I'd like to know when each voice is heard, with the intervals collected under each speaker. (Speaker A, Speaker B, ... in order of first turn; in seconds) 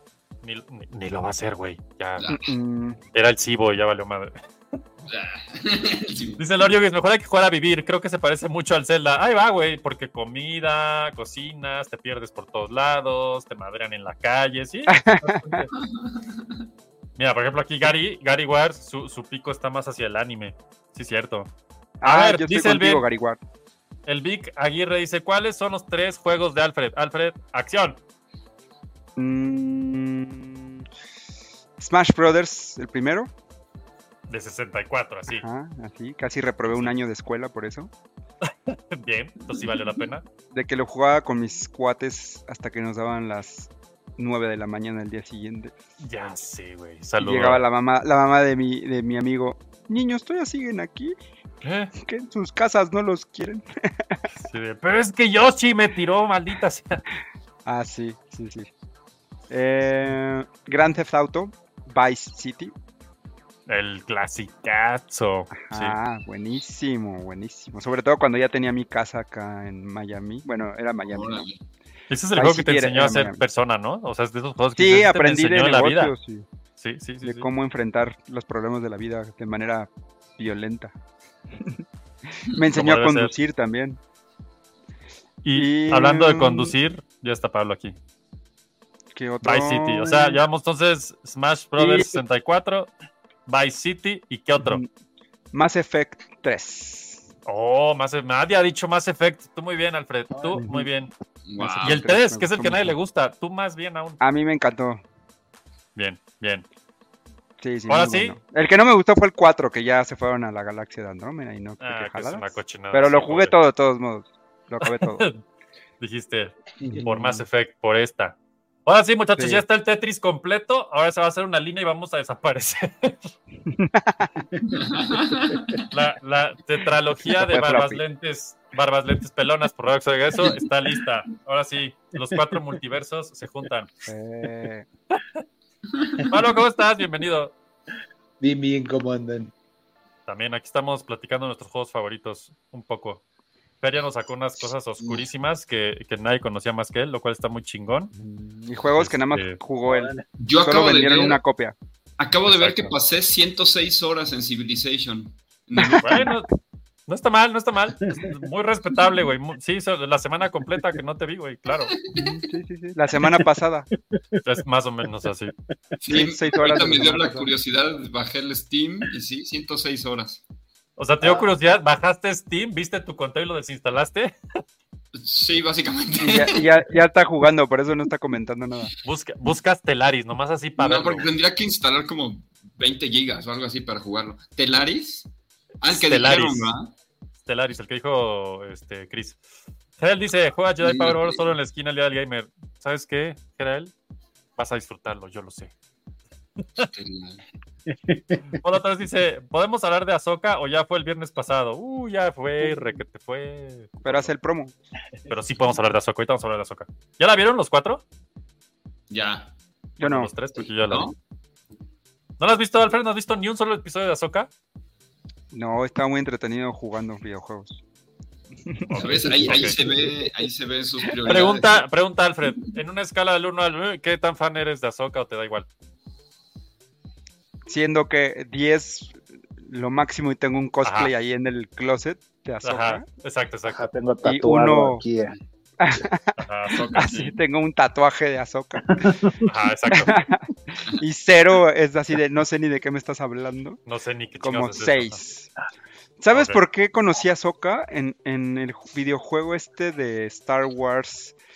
Speaker A: 0.4-2.3, 3.1-4.4, 6.4-15.7, 17.2-21.5, 22.0-23.1, 24.1-28.0, 34.3-35.5, 36.7-36.9, 38.4-40.2, 46.0-47.7, 51.6-51.9, 54.4-57.0, 63.7-66.0, 72.1-76.2, 76.8-77.5, 82.7-83.3, 85.4-88.0, 89.4-92.9, 93.5-94.8, 97.5-104.2, 106.0-106.7, 107.9-108.4, 111.8-113.6, 114.8-115.4, 116.0-123.3, 125.9-133.9, 136.3-137.5, 140.3-143.2, 143.8-148.1, 149.0-149.6, 152.5-152.9, 156.0-156.5, 157.1-162.0, 164.4-165.5, 171.0-174.3, 179.0-181.3, 185.9-186.8, 187.5-189.4, 190.0-193.9, 194.6-195.7, 198.6-204.3, 205.3-208.0, 210.0-211.1, 212.4-214.5, 218.9-219.8, 221.3-225.7, 230.8-231.1, 232.6-233.9, 236.4-237.4, 239.4-240.2, 243.9-245.2, 246.3-246.6
Speaker B: 2.2-2.4, 5.1-6.4, 15.8-16.2, 71.1-71.6, 101.5-102.0, 124.8-125.8, 150.4-151.4, 152.2-156.3, 166.0-170.4, 175.2-176.7, 180.8-185.3, 185.8-186.9, 190.8-191.5, 196.8-197.4, 209.1-209.5, 210.9-211.2, 219.0-221.8
Speaker C: 2.3-3.0, 14.9-15.7, 22.0-23.4, 29.2-30.9, 31.8-33.3, 35.3-37.9, 40.5-45.7, 47.2-51.2, 52.0-54.2, 57.7-58.7, 59.5-62.8, 65.5-71.5, 72.3-73.4, 74.8-76.5, 77.2-80.9, 81.5-81.8, 82.4-84.0, 85.5-86.8, 89.1-90.4, 91.8-92.2, 94.6-94.9, 95.5-97.3, 100.5-100.9, 101.8-103.0, 104.2-105.0, 107.6-115.2, 116.8-117.4, 119.4-119.6, 123.7-124.3, 127.4-128.0, 134.1-134.9, 148.2-151.8, 155.8-156.3, 162.1-163.9, 166.1-167.5, 176.2-178.9, 204.0-204.7, 210.0-210.3, 215.5-217.8, 218.7-220.3, 227.7-233.1, 234.2-235.1, 235.8-239.1, 240.0-243.8, 244.4-245.5, 246.2-251.4
Speaker D: 138.4-139.5, 149.8-150.2, 197.9-198.6, 233.7-235.3, 238.8-239.4